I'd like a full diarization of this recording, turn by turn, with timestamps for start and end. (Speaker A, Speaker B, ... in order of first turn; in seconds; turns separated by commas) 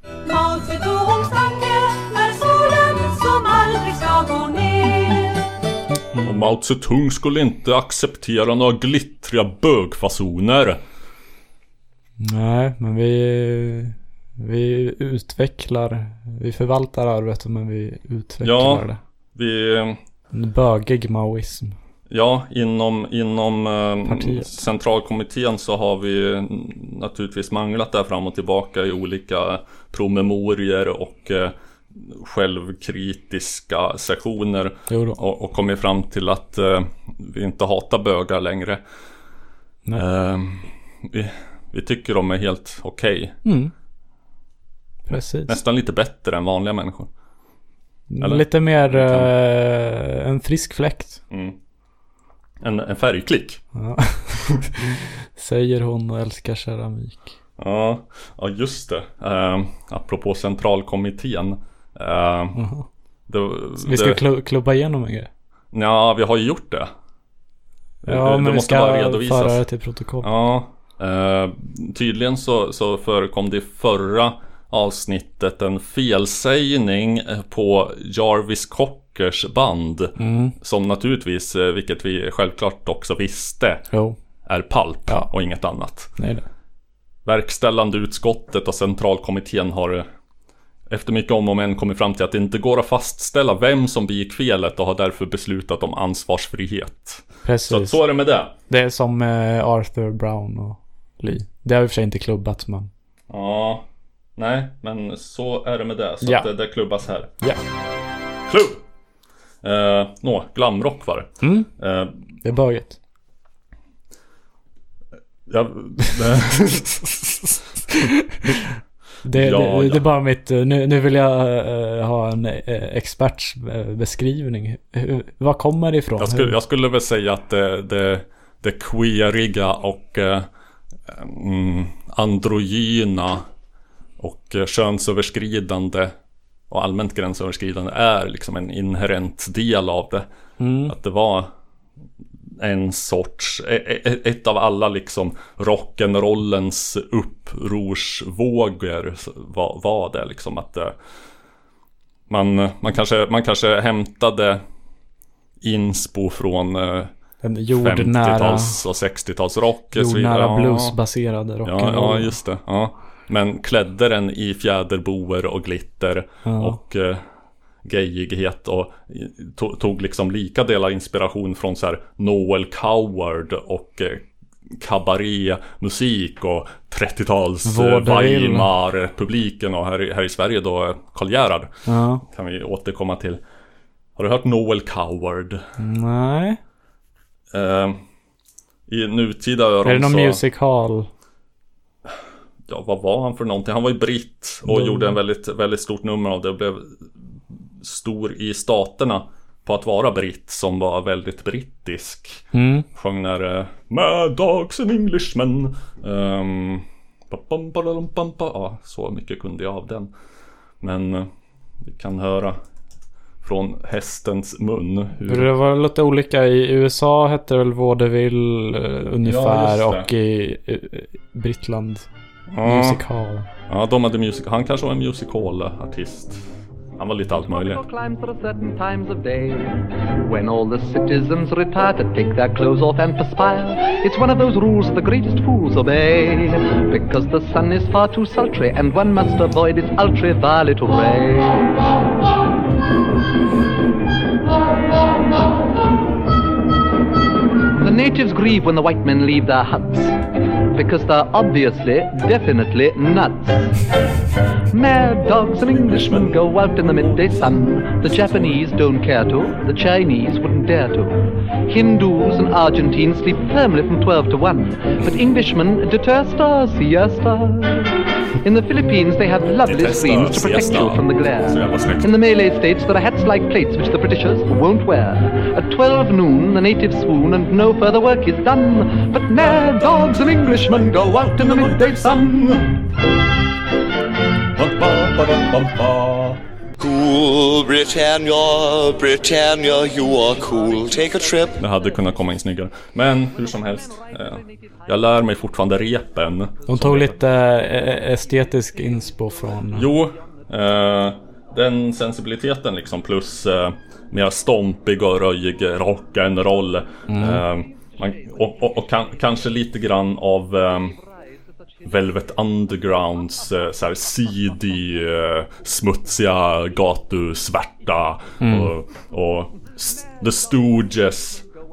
Speaker A: 0.2-5.2, Speaker B: 6.2-10.8, Speaker C: 12.2-19.0, Speaker B: 18.4-20.0, Speaker C: 20.3-21.8, Speaker B: 22.1-38.8, Speaker C: 24.1-24.5, Speaker C: 34.9-35.2, Speaker B: 40.0-43.4, Speaker C: 43.4-43.7, Speaker C: 45.1-45.6, Speaker B: 45.5-47.1, Speaker C: 48.1-51.2, Speaker B: 48.2-49.3, Speaker B: 51.3-51.6, Speaker B: 52.6-53.6, Speaker C: 53.7-57.3, Speaker B: 57.6-62.6, Speaker C: 62.5-62.9, Speaker B: 63.3-64.2, Speaker C: 63.8-65.3, Speaker B: 65.7-66.9, Speaker B: 68.0-69.6, Speaker C: 68.0-70.3, Speaker B: 70.2-83.8, Speaker C: 80.2-80.5, Speaker C: 83.9-84.2, Speaker B: 84.5-86.1, Speaker C: 86.2-86.4, Speaker B: 87.2-90.0, Speaker B: 90.9-98.5, Speaker C: 97.4-98.0, Speaker C: 98.7-102.9, Speaker B: 103.3-103.8, Speaker B: 104.4-107.3, Speaker C: 106.2-106.5, Speaker B: 108.5-108.8, Speaker B: 109.6-112.2, Speaker C: 111.4-111.7, Speaker C: 112.4-113.0, Speaker B: 115.5-117.6, Speaker C: 119.2-126.5, Speaker B: 119.3-120.1, Speaker B: 126.2-130.5, Speaker B: 131.1-133.4, Speaker B: 134.2-136.1, Speaker B: 136.7-140.2, Speaker C: 140.6-140.9, Speaker B: 140.8-141.5, Speaker B: 142.6-150.9, Speaker B: 152.3-154.6, Speaker B: 155.6-157.1, Speaker C: 157.4-158.8, Speaker B: 157.7-161.0, Speaker C: 159.9-162.3, Speaker B: 161.6-167.2, Speaker C: 166.4-166.8, Speaker B: 167.8-181.7, Speaker C: 177.7-178.7, Speaker C: 181.8-182.2, Speaker B: 182.3-183.4, Speaker B: 184.2-185.6, Speaker C: 185.8-186.6, Speaker B: 187.5-188.0, Speaker B: 188.9-190.4, Speaker C: 189.8-191.1, Speaker B: 192.7-197.1, Speaker C: 194.7-195.2, Speaker B: 197.8-210.1, Speaker C: 202.5-202.8, Speaker B: 210.8-211.3, Speaker B: 211.8-212.6, Speaker B: 213.4-215.5, Speaker C: 215.2-222.1, Speaker B: 219.2-220.1, Speaker B: 222.5-223.0, Speaker C: 222.6-223.5, Speaker B: 223.7-227.8, Speaker D: 227.3-241.7, Speaker D: 247.8-250.2, Speaker D: 250.7-253.6, Speaker D: 254.7-282.4, Speaker B: 255.6-258.6, Speaker B: 269.6-272.1, Speaker B: 280.2-282.7, Speaker B: 284.6-286.4, Speaker E: 286.8-291.6, Speaker B: 291.6-297.2, Speaker C: 296.7-299.9, Speaker B: 299.7-310.9, Speaker C: 307.1-307.4, Speaker B: 311.8-321.4, Speaker C: 318.4-318.7